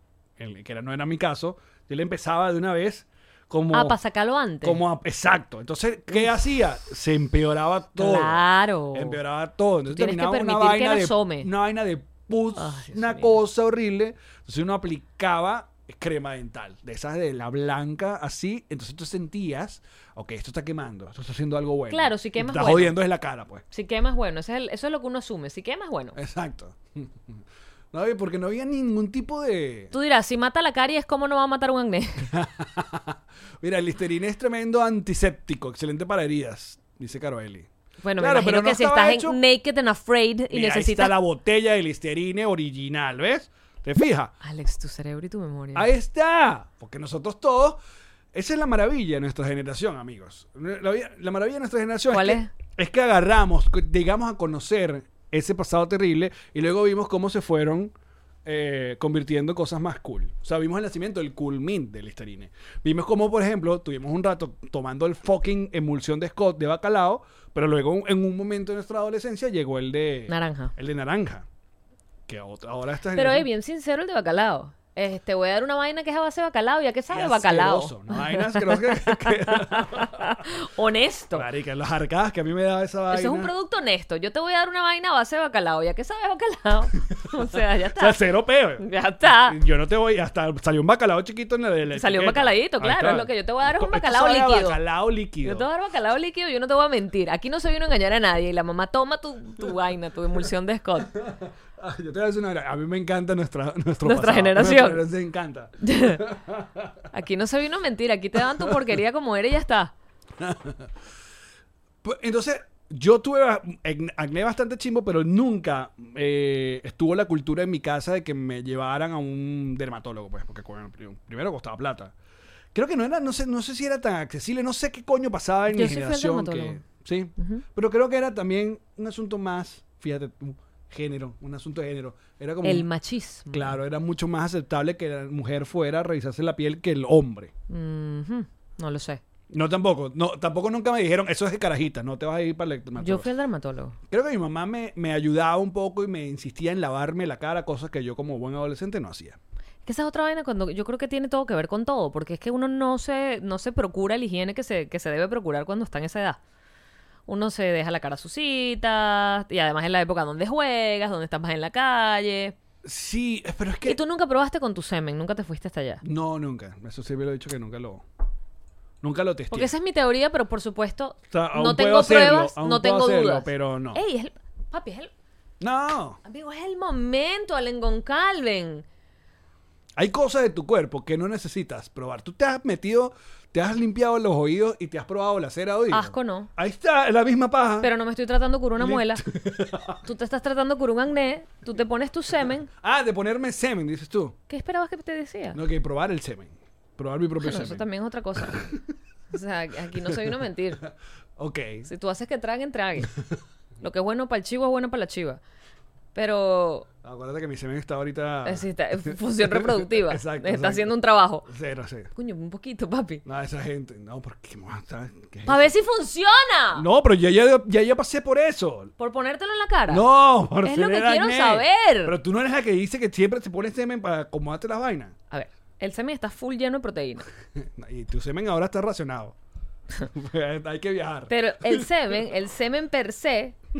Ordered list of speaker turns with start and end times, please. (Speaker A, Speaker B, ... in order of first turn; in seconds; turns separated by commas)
Speaker A: 0.4-4.0, Speaker B: 3.7-4.8, Speaker A: 4.6-23.6, Speaker B: 8.0-9.2, Speaker B: 9.9-11.5, Speaker B: 12.6-13.4, Speaker B: 21.9-22.9, Speaker B: 23.7-26.2, Speaker A: 26.1-29.9, Speaker B: 29.9-32.3, Speaker A: 32.3-39.4, Speaker B: 38.0-41.1, Speaker A: 40.5-44.3, Speaker B: 44.4-45.9, Speaker A: 45.7-47.8, Speaker A: 48.3-57.9, Speaker B: 52.1-52.5, Speaker A: 58.4-71.5, Speaker B: 70.3-70.7, Speaker A: 72.3-73.5, Speaker B: 73.1-81.5, Speaker A: 77.1-80.4, Speaker A: 81.3-83.5, Speaker B: 83.1-88.2, Speaker A: 87.9-95.7, Speaker B: 88.8-89.6, Speaker B: 91.9-94.8, Speaker B: 95.4-101.1, Speaker A: 101.1-107.0, Speaker B: 104.0-105.0, Speaker B: 105.8-106.2, Speaker B: 107.1-109.9, Speaker A: 110.4-110.9, Speaker A: 112.0-122.1, Speaker A: 122.7-132.9, Speaker B: 125.7-126.8, Speaker B: 127.4-127.6, Speaker B: 132.6-133.8, Speaker A: 133.5-137.5, Speaker B: 137.7-139.2, Speaker A: 139.5-143.3, Speaker B: 143.0-144.0, Speaker A: 144.1-149.4, Speaker B: 149.8-156.4, Speaker B: 157.3-162.6, Speaker A: 162.8-164.0, Speaker B: 163.8-166.0, Speaker A: 166.0-168.0, Speaker A: 169.0-169.7, Speaker B: 169.5-175.1, Speaker A: 171.3-174.0, Speaker A: 175.6-176.2, Speaker B: 176.2-178.8, Speaker A: 179.9-187.9, Speaker B: 185.9-186.5, Speaker B: 187.8-189.2, Speaker A: 188.8-190.0, Speaker B: 190.0-192.7, Speaker A: 192.7-194.3, Speaker B: 194.5-195.6, Speaker A: 195.5-197.8, Speaker B: 197.4-198.7, Speaker A: 198.4-198.7, Speaker B: 199.3-200.8, Speaker A: 199.9-201.9, Speaker B: 201.8-203.1, Speaker B: 203.8-205.4, Speaker B: 206.1-206.9, Speaker A: 207.0-210.9, Speaker B: 208.4-211.5, Speaker A: 211.4-212.1, Speaker B: 212.1-213.2, Speaker A: 213.2-215.7, Speaker B: 215.4-216.8, Speaker A: 216.7-218.9, Speaker B: 219.0-220.0, Speaker A: 219.9-225.1, Speaker B: 220.6-222.2, Speaker B: 225.3-227.2, Speaker A: 227.5-229.3, Speaker A: 230.1-231.9, Speaker B: 231.3-233.5